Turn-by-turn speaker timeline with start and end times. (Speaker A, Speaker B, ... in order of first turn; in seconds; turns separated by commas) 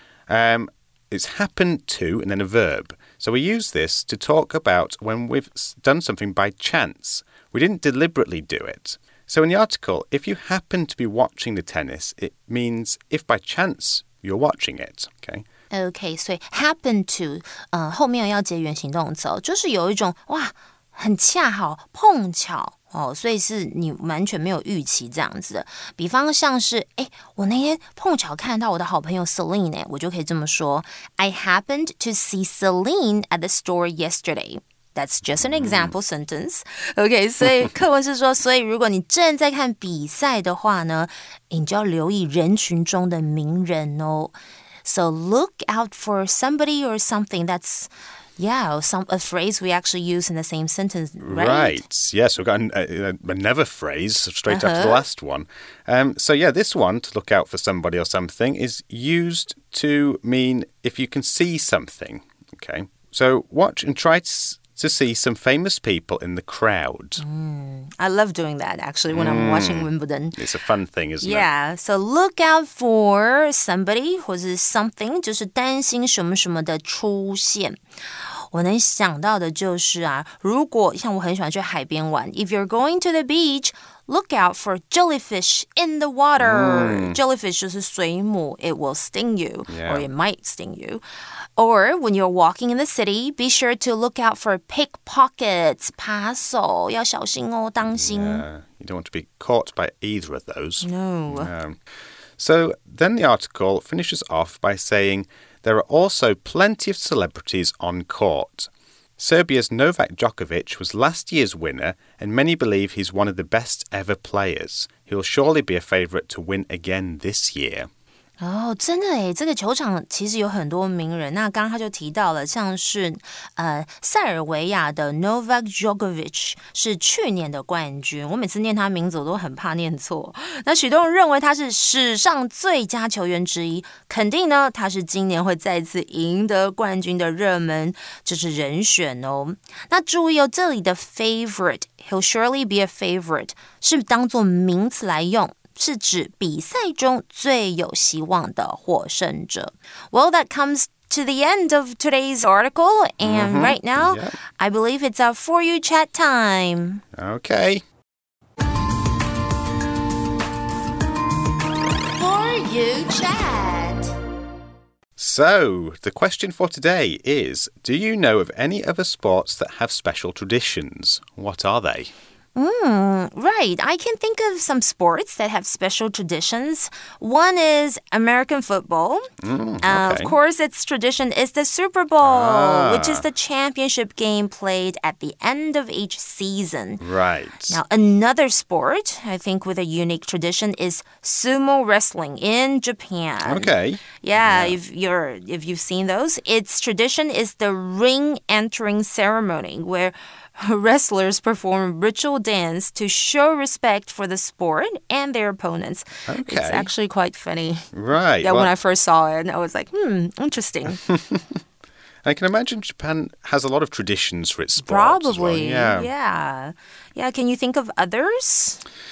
Speaker A: 0.3-15.4, Speaker B: 15.7-51.8, Speaker A: 35.4-35.9, Speaker A: 51.2-67.2, Speaker B: 54.5-55.0, Speaker B: 67.2-70.4, Speaker A: 69.1-71.5, Speaker B: 71.2-91.0, Speaker A: 86.4-87.2, Speaker A: 89.7-90.1, Speaker B: 91.6-98.4, Speaker A: 97.8-101.8, Speaker B: 100.8-101.5, Speaker A: 102.4-117.9, Speaker B: 118.4-157.0, Speaker A: 153.2-154.4, Speaker A: 157.2-157.8, Speaker B: 162.1-164.1, Speaker A: 165.2-172.1, Speaker B: 172.6-179.3, Speaker A: 179.4-180.3, Speaker B: 179.8-187.0, Speaker A: 182.2-183.2, Speaker A: 187.0-187.8, Speaker B: 187.7-211.1, Speaker A: 193.4-194.8, Speaker A: 206.3-206.9, Speaker A: 207.9-208.7, Speaker A: 211.1-211.4, Speaker A: 212.2-216.1, Speaker B: 214.8-218.8